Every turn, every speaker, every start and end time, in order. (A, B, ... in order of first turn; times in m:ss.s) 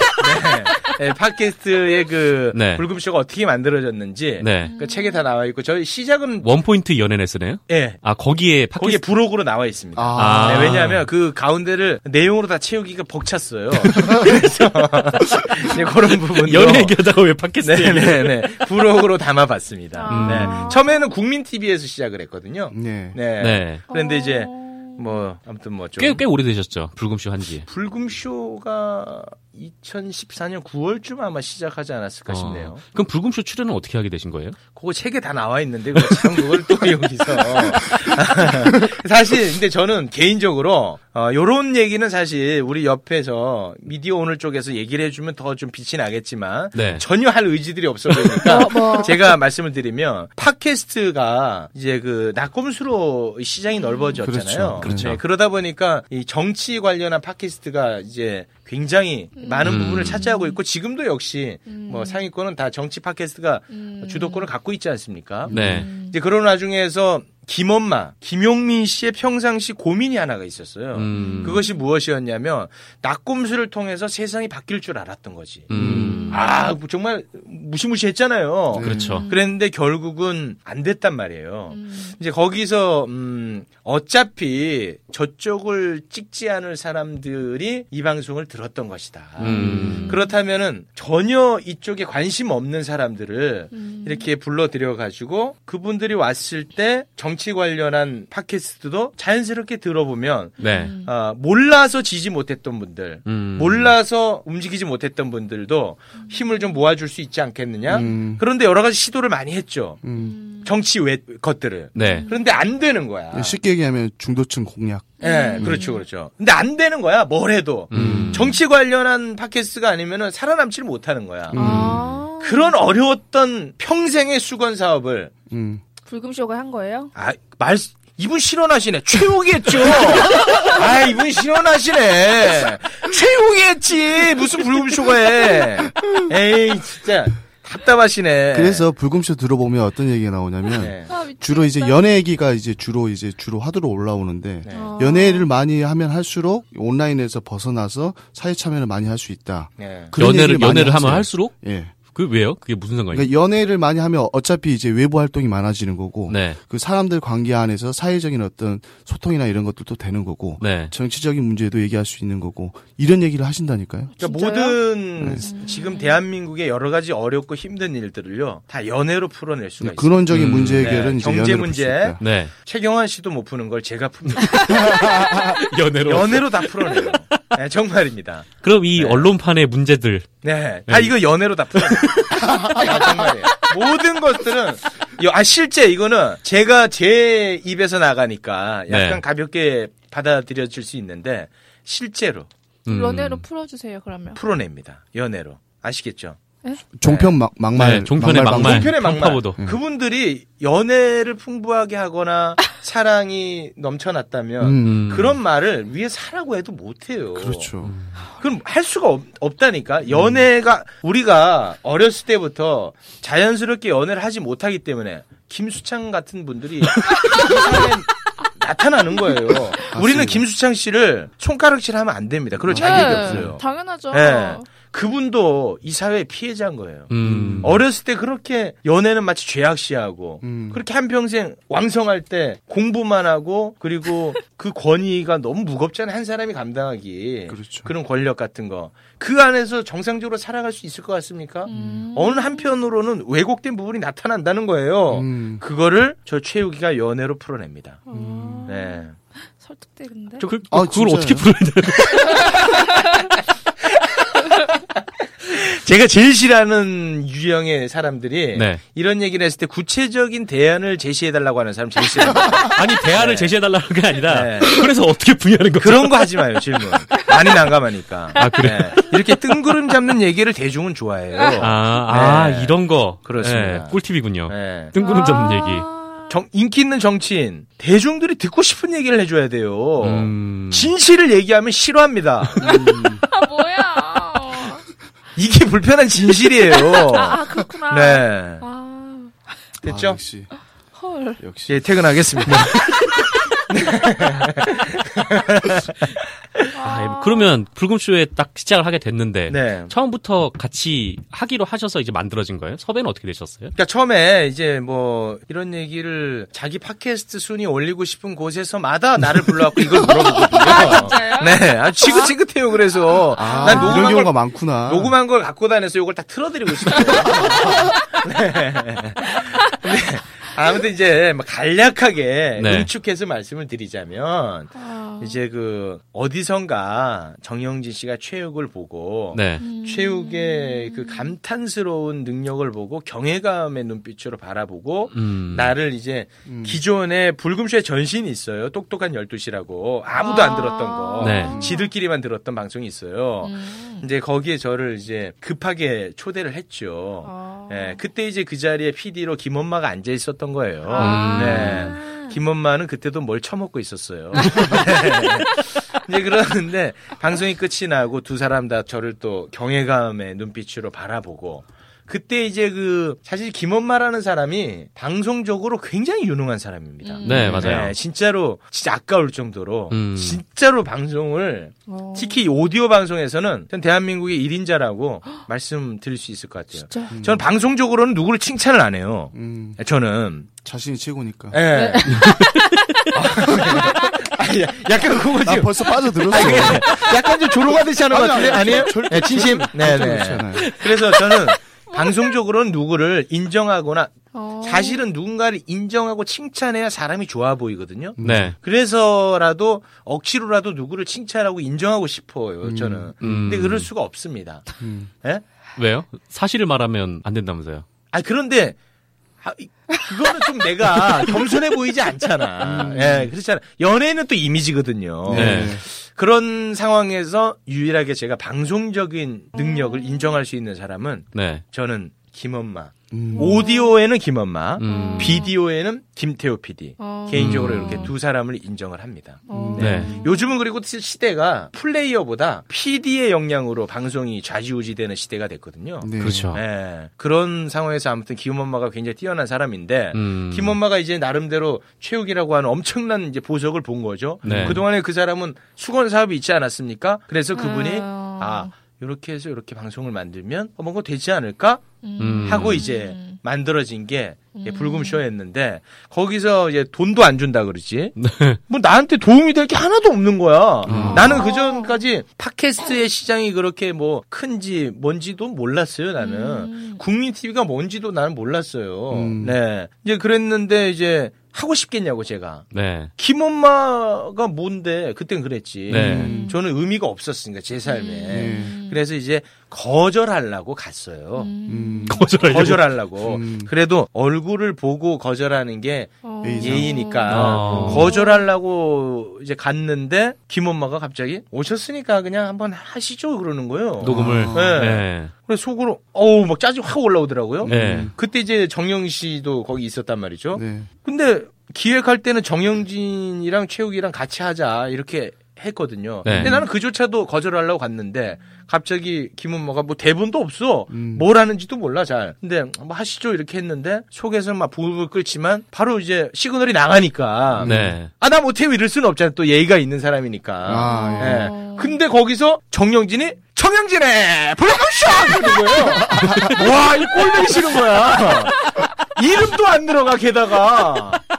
0:00.2-0:06.5 A
0:02.5-0:02.8 B
0:04.4-0:04.7 B
0:04.6-0:05.2 C
0:06.4-0:09.0 B
0:07.7-0:08.0 A
0:08.8-0:17.0 A
0:09.9-0:10.9 D
0:10.1-0:11.0 B
0:16.3-0:18.8 B
0:17.6-0:26.2 A
0:19.9-0:21.1 C
0:20.1-0:20.7 B
0:22.7-0:23.2 D
0:23.4-0:23.8 B
0:23.9-0:25.2 C
0:26.0-0:27.6 B
0:27.6-0:32.8 A
0:32.3-0:34.6 B
0:34.7-1:15.7 A
0:36.0-0:36.4 B
0:46.7-0:47.0 B
0:48.4-0:49.3 C
0:53.8-0:54.2 C
0:54.2-0:55.2 D
0:54.8-0:55.2 B
0:59.4-1:00.6 C
0:59.6-1:00.2 B
1:01.7-1:02.2 C
1:03.7-1:04.5 C
1:05.5-1:05.9 D
1:05.5-1:05.9 B
1:05.6-1:06.2 C
1:10.9-1:11.6 B
1:11.1-1:11.8 C
1:15.7-1:16.4 B
1:15.7-1:16.3 D
1:15.9-1:16.5 C
1:16.3-1:50.0 A
1:18.7-1:19.2 D
1:18.8-1:19.3 B
1:19.1-1:19.5 C
1:21.7-1:22.2 C
1:29.4-1:30.2 B
1:29.5-1:30.4 C
1:33.7-1:34.3 C
1:40.6-1:40.9 B
1:40.6-1:41.1 C
1:43.2-1:43.9 B
1:46.2-1:46.8 C
1:47.9-1:48.4 D
1:50.0-1:50.4 D
1:50.2-1:50.7 C
1:50.6-1:53.6 A
1:51.9-1:52.3 B
1:52.0-1:52.4 C
1:53.3-1:55.8 D
1:55.2-1:56.0 C
1:55.2-2:01.6 A
1:57.9-1:58.6 B
1:57.9-1:58.5 D
2:01.5-2:02.1 D
2:01.5-2:02.8 C
2:01.6-2:02.1 B
2:02.4-2:05.3 A
2:05.5-2:05.8 D
2:06.1-2:07.1 C
2:07.1-2:18.9 A
2:18.5-2:31.9 D
2:20.8-2:21.1 A
2:21.1-2:22.0 C
2:24.6-2:24.9 A
2:24.7-2:25.5 C
2:29.8-2:30.1 A
2:30.1-2:31.6 B
2:32.1-2:33.3 B
2:33.1-2:44.1 D
2:36.3-2:36.6 B
2:40.6-2:40.9 B
2:44.2-2:46.2 C
2:44.2-2:55.1 A
2:45.2-2:45.5 D
2:49.8-2:52.2 D
2:50.3-2:51.0 B
2:52.2-2:52.5 B
2:54.3-2:57.4 B
2:56.0-2:59.3 A
2:58.6-3:01.2 B
3:00.4-3:12.5 A
3:01.7-3:02.9 B
3:08.9-3:09.2 B
3:12.9-3:13.4 B
3:12.9-3:14.4 C
3:14.4-3:16.4 A
3:16.9-3:19.8 D
3:17.0-3:17.4 A
3:17.8-3:19.6 B
3:18.4-3:27.7 A
3:24.6-3:25.2 D
3:24.8-3:25.4 B
3:27.4-3:27.9 D
3:27.8-3:28.1 B
3:28.4-4:08.0 A
3:30.1-3:30.4 D
3:39.9-3:40.4 D
3:42.6-3:43.5 D
3:42.7-3:44.7 C
3:47.1-3:47.8 B
3:47.2-3:47.8 D
3:50.4-3:50.8 D
3:57.5-3:57.9 D
4:01.6-4:02.7 C
4:01.7-4:02.1 D
4:05.1-4:05.6 D
4:08.1-4:09.0 C
4:08.1-4:08.7 D
4:08.7-4:09.1 A
4:09.6-4:10.4 C
4:10.4-4:12.7 B
4:10.7-4:11.5 D
4:12.2-4:13.1 C
4:15.4-4:23.6 A
4:18.5-4:18.8 B
4:22.6-4:26.6 B
4:24.2-4:24.9 A
4:25.8-4:34.9 A
4:28.4-4:29.2 B
4:31.6-4:35.9 B
4:35.0-4:36.4 C
4:36.3-4:42.6 A
4:40.0-4:40.9 B
4:42.6-4:43.2 D
4:42.6-4:44.8 C
4:45.4-4:48.6 A
4:46.7-4:49.6 C
4:49.8-4:50.2 A
4:49.9-4:50.5 D
4:50.9-4:51.4 C
4:51.4-4:52.8 D
4:51.7-4:53.0 A
4:53.7-4:56.0 A
4:56.8-4:57.5 C
4:56.8-5:03.7 B
4:59.5-4:59.9 A
5:03.8-6:20.5 A
5:09.9-5:10.9 D
5:10.5-5:12.3 C
5:13.4-5:15.1 D
5:13.4-5:14.2 C
5:22.6-5:22.9 B
5:24.7-5:25.4 C
5:29.3-5:29.6 B
5:29.6-5:31.3 C
5:35.1-5:35.7 B
5:36.4-5:36.8 D
5:40.2-5:41.9 C
5:41.2-5:41.6 B
5:41.4-5:41.8 D
5:43.4-5:44.1 C
5:47.2-5:48.0 C
5:50.9-5:52.4 C
5:51.0-5:52.0 B
5:54.4-5:54.9 C
6:07.0-6:07.9 C
6:07.2-6:07.9 B
6:07.4-6:07.8 D
6:09.9-6:10.4 B
6:11.9-6:12.4 C
6:16.8-6:17.2 C
6:17.1-6:17.4 D
6:19.3-6:19.8 D
6:20.6-6:21.6 D
6:21.5-6:22.4 A
6:21.7-6:24.2 C
6:22.1-6:22.7 B
6:23.1-6:44.6 A
6:25.4-6:27.1 D
6:28.1-6:30.7 D
6:31.9-6:32.3 C
6:34.3-6:35.0 C
6:38.2-6:38.6 D
6:38.2-6:38.6 B
6:42.6-6:43.8 D
6:43.2-6:43.9 B
6:44.8-6:45.1 D
6:45.8-6:47.8 B
6:48.1-6:48.8 A
6:49.4-7:38.1 A
6:52.6-6:53.3 D
6:55.2-6:55.8 D
6:55.3-6:55.8 B
6:59.6-7:00.3 C
7:01.3-7:01.6 B
7:03.1-7:03.6 D
7:03.3-7:04.0 C
7:04.8-7:05.5 B
7:04.8-7:05.5 C
7:07.0-7:08.1 C
7:07.3-7:08.1 B
7:09.5-7:10.1 D
7:09.5-7:10.5 C
7:09.8-7:10.2 B
7:16.0-7:16.5 D
7:16.2-7:16.6 B
7:20.1-7:20.8 B
7:24.4-7:24.8 B
7:24.4-7:24.8 D
7:27.5-7:28.7 C
7:32.0-7:33.4 C
7:32.2-7:32.8 B
7:34.5-7:35.2 C
7:38.2-7:38.6 B
7:38.7-8:01.5 A
7:40.9-7:41.4 B
7:40.9-7:41.4 D
7:41.2-7:42.0 C
7:46.2-7:47.0 C
7:49.1-7:49.6 D
7:52.7-7:53.1 B
7:55.9-7:56.6 D
7:55.9-7:56.4 B
7:56.1-7:56.6 C
7:57.8-7:59.0 C
7:58.3-7:58.7 D
8:01.4-8:02.2 C
8:01.7-8:03.7 D
8:02.1-8:02.8 B
8:02.4-8:51.2 A
8:06.2-8:08.5 C
8:06.4-8:08.1 D
8:07.3-8:08.1 B
8:14.0-8:15.3 B
8:14.0-8:14.8 D
8:17.6-8:18.1 D
8:17.6-8:18.1 B
8:20.5-8:20.9 D
8:26.2-8:26.6 B
8:26.3-8:26.6 D
8:30.9-8:31.3 D
8:37.5-8:38.0 D
8:37.6-8:38.1 B
8:40.6-8:41.5 D
8:40.8-8:42.0 C
8:45.9-8:46.6 D